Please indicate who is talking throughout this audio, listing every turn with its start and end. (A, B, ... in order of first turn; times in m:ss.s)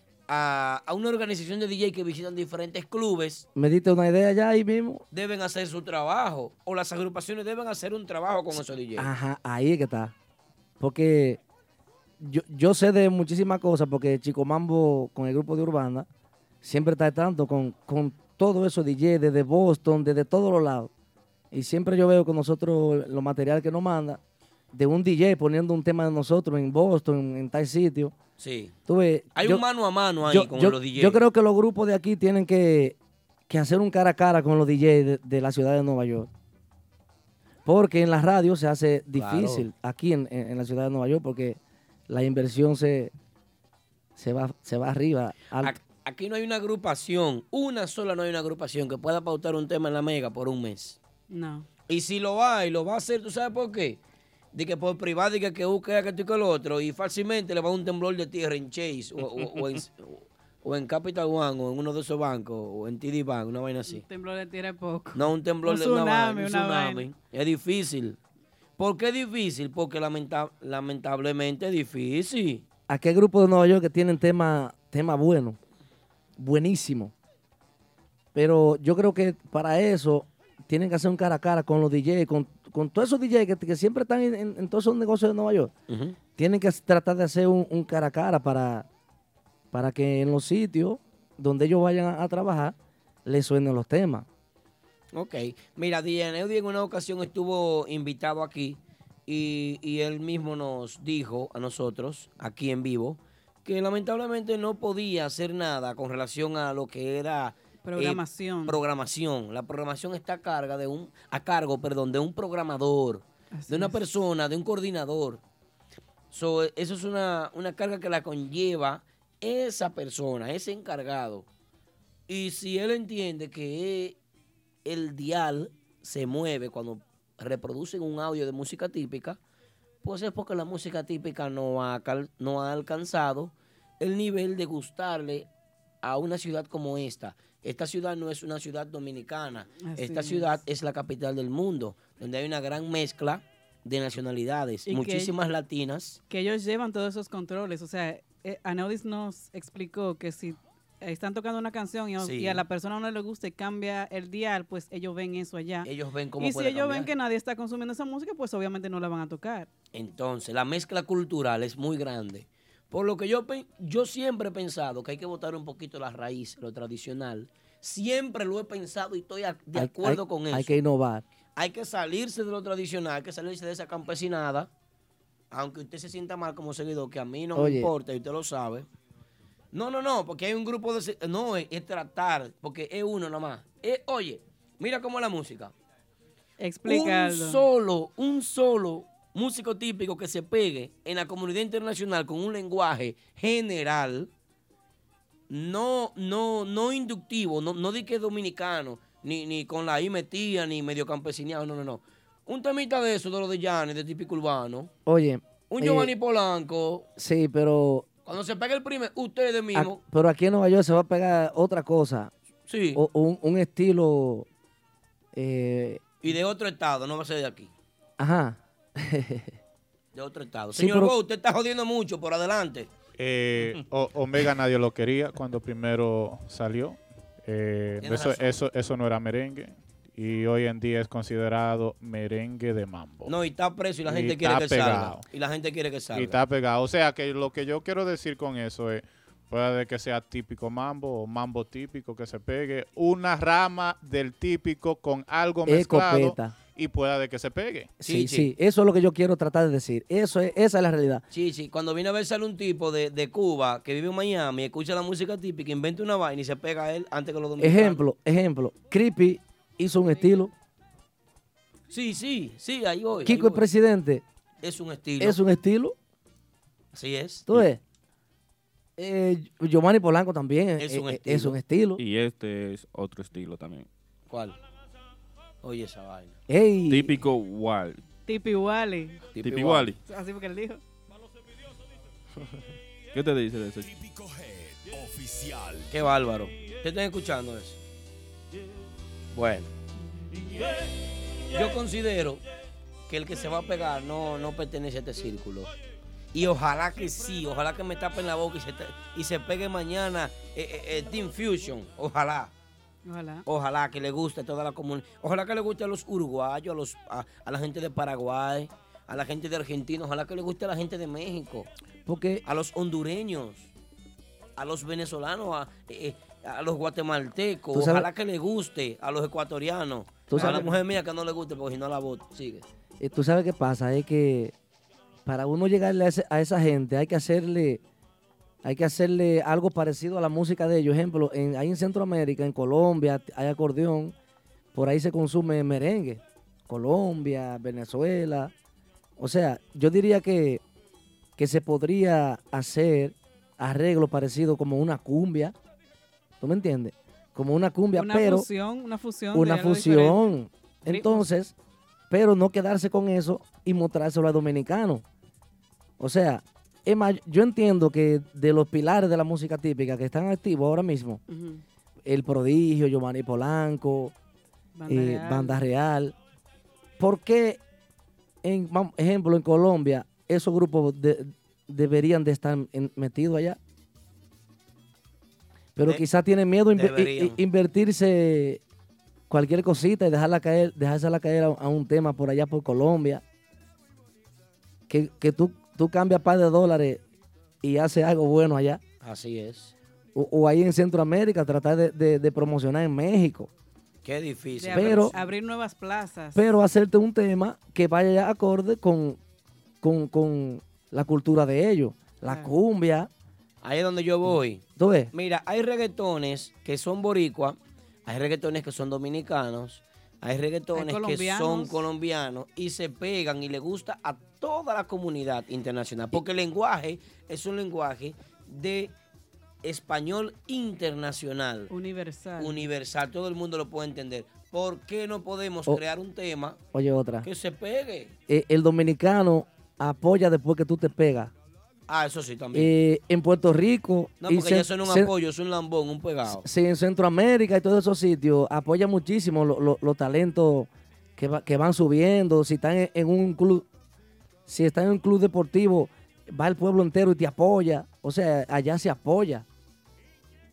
0:00.3-0:03.5 A
0:03.6-0:05.0 B
0:05.1-0:09.1 A
0:09.0-0:10.1 B
0:10.8-0:11.4 B
0:12.2-0:16.1 B
0:16.6-0:20.9 B
0:21.5-0:24.2 B
0:24.7-0:28.2 B
0:28.4-0:28.8 A
0:28.9-0:29.6 B
0:29.4-0:31.2 A
0:30.2-0:33.0 B
0:33.5-0:36.3 B
0:37.7-0:43.1 B
0:39.2-0:39.7 A
0:44.2-0:45.8 B
0:45.6-0:51.0 A
0:51.3-0:51.7 C
0:51.9-0:54.0 A
0:54.5-1:04.0 A
1:03.9-1:07.0 C
1:05.2-1:08.2 A
1:08.8-1:12.6 A
1:12.9-1:15.6 B
1:16.4-1:17.1 B
1:18.4-1:25.7 B
1:25.9-1:26.2 A
1:26.4-1:28.9 B
1:29.7-1:34.3 B
1:35.1-1:55.4 A
1:47.8-1:48.8 C
1:53.5-1:54.0 C
1:56.3-2:01.5 A
2:02.3-2:04.2 A
2:04.8-2:09.4 A
2:10.0-2:15.5 A
2:16.0-2:26.2 A
2:19.8-2:20.6 C
2:24.9-2:25.3 C
2:26.3-2:39.7 C
2:32.2-2:32.6 A
2:35.8-2:37.1 A
2:39.9-2:50.7 A
2:49.8-2:51.2 B
2:51.6-2:54.7 A
2:55.5-2:58.9 A
2:57.6-2:57.9 B
2:59.7-3:05.7 A
3:06.6-3:07.6 C
3:06.9-3:14.3 A
3:15.5-3:24.9 A
3:25.1-3:26.1 B
3:25.7-3:27.1 A
3:27.2-3:28.1 B
3:28.2-3:30.0 A
3:29.7-3:32.3 B
3:32.7-3:33.0 A
3:32.9-3:34.5 B
3:35.3-3:36.0 B
3:36.2-3:37.7 A
3:38.2-3:39.6 B
3:40.1-3:42.9 A
3:40.7-3:41.1 B
3:43.2-3:53.3 D
3:48.0-3:48.6 A
3:53.2-3:56.4 A
3:54.0-3:55.2 D
3:56.1-4:07.9 D
4:05.7-4:06.5 B
4:08.0-4:11.2 B
4:08.0-4:08.5 A
4:11.3-4:18.0 A
4:17.6-4:20.5 B
4:21.9-4:23.6 A
4:23.2-4:24.2 B
4:24.6-4:25.4 A
4:25.2-4:26.0 B
4:26.9-4:27.7 A
4:27.5-4:27.8 B
4:29.0-4:32.0 B
4:30.8-4:31.6 A
4:32.0-4:33.9 E
4:34.3-4:34.6 A
4:35.6-4:36.4 A
4:36.5-4:37.2 B
4:36.9-4:38.0 E
4:38.3-4:39.2 C
4:39.3-4:40.0 A
4:39.4-4:40.0 E
4:40.0-4:40.8 C
4:43.1-4:43.9 E
4:43.8-4:45.9 F
4:45.9-4:47.8 A
4:49.3-4:49.7 A
4:51.5-4:52.4 A
4:53.1-4:55.7 A
4:56.3-5:02.5 A
5:03.1-5:03.5 C
5:03.5-5:11.7 A
5:12.1-5:12.4 B
5:12.4-5:13.7 A
5:14.6-5:22.6 A
5:17.7-5:18.1 B
5:20.3-5:20.8 B
5:23.0-5:24.6 B
5:25.3-5:27.8 B
5:28.6-5:34.2 B
5:34.7-5:38.5 B
5:39.2-5:40.6 B
5:41.4-5:45.5 B
5:46.4-5:48.5 B
5:48.0-5:50.2 C
5:49.3-5:51.5 B
5:50.9-5:51.3 C
5:52.1-5:55.0 B
5:56.0-6:01.2 B
6:01.3-6:01.6 C
6:02.0-6:04.1 B
6:04.8-6:05.6 C
6:04.9-6:06.2 B
6:07.0-6:07.6 B
6:08.4-6:13.6 B
6:15.8-6:18.6 B
6:16.7-6:17.4 A
6:19.3-6:23.2 B
6:24.9-6:27.0 B
6:27.6-6:28.8 B
6:29.0-6:29.8 A
6:30.2-6:33.5 B
6:34.0-6:35.2 A
6:34.6-6:36.4 C
6:34.7-6:35.1 B
6:36.4-6:39.2 B
6:39.8-6:43.1 B
6:42.2-6:42.5 C
6:43.6-6:58.9 A
6:44.8-6:45.1 B
6:50.7-6:51.8 C
6:59.6-7:01.7 A
7:01.7-7:02.6 C
7:02.4-7:06.6 A
7:06.7-7:07.3 B
7:07.2-7:08.1 A
7:08.3-7:11.3 B
7:11.9-7:12.7 A
7:12.5-7:15.1 B
7:14.2-7:16.4 A
7:16.3-7:23.7 B
7:24.5-7:29.5 B